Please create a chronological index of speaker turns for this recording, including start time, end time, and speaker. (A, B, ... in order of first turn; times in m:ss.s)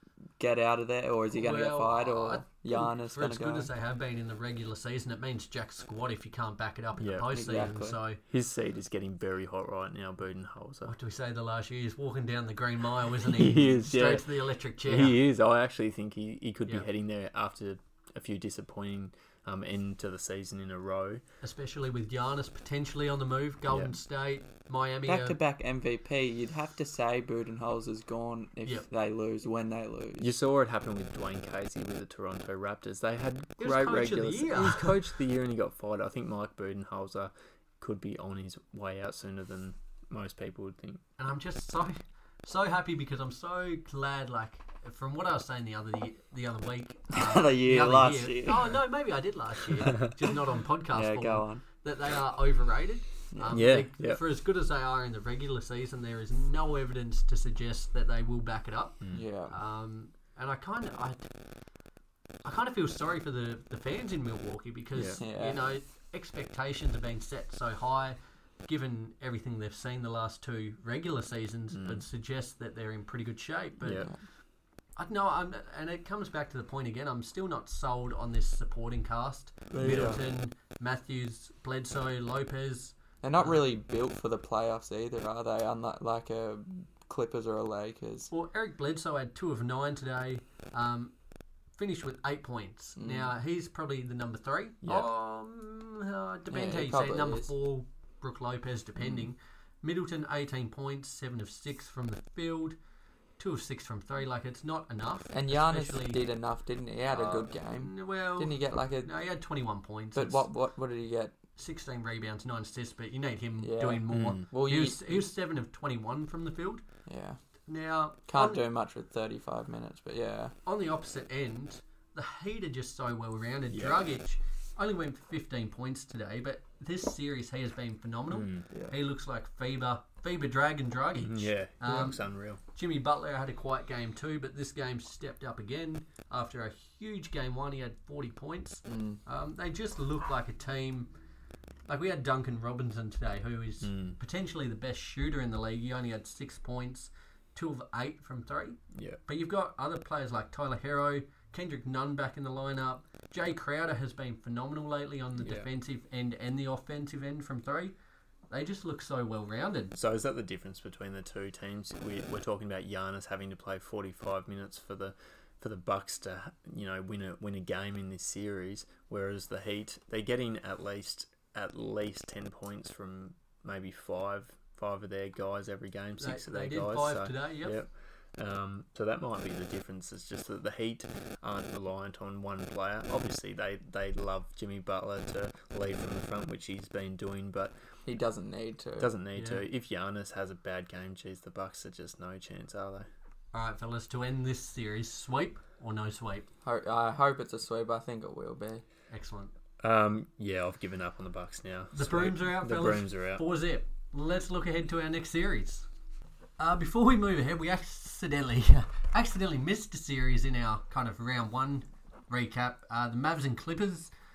0:00.4-0:03.7 A
0:01.3-0:08.2 B
0:07.0-0:07.7 C
0:07.3-0:08.0 A
0:08.2-0:10.9 C
0:10.9-0:15.2 B
0:13.3-0:21.2 C
0:21.4-0:25.4 B
0:23.7-0:23.9 C
0:25.0-0:30.3 A
0:30.2-0:41.0 C
0:33.6-0:34.9 B
0:41.2-1:01.3 B
0:47.1-0:48.7 A
0:50.9-0:51.6 A
0:53.3-0:53.6 A
0:53.5-0:54.2 C
0:59.1-0:59.6 A
1:02.4-1:14.1 B
1:05.2-1:05.6 A
1:11.7-1:12.0 C
1:13.8-1:14.1 C
1:15.0-1:23.6 B
1:19.7-1:20.2 C
1:19.8-1:20.2 A
1:23.2-1:28.3 A
1:28.3-1:31.1 B
1:31.8-1:42.8 B
1:33.0-1:33.3 A
1:36.5-1:37.5 A
1:43.4-1:46.2 B
1:45.3-1:49.1 A
1:47.1-1:50.5 B
1:50.1-1:51.4 A
1:51.6-1:56.8 B
1:53.6-1:55.3 A
1:54.1-1:54.4 C
1:57.0-1:57.4 A
1:57.7-1:58.6 B
1:58.3-2:00.5 A
2:00.6-2:21.1 B
2:03.7-2:04.1 C
2:08.3-2:08.7 C
2:11.1-2:12.6 C
2:18.9-2:19.2 A
2:21.9-2:38.0 B
2:23.8-2:24.2 C
2:28.9-2:29.2 C
2:35.4-2:35.7 C
2:38.5-2:40.0 B
2:40.0-3:07.7 C
2:56.2-2:57.8 B
3:08.0-3:09.1 A
3:09.0-3:13.1 C
3:09.3-3:09.6 B
3:13.5-3:16.5 B
3:16.6-3:18.8 A
3:19.1-3:19.5 B
3:19.8-3:23.4 C
3:21.9-3:25.9 B
3:26.6-3:34.1 B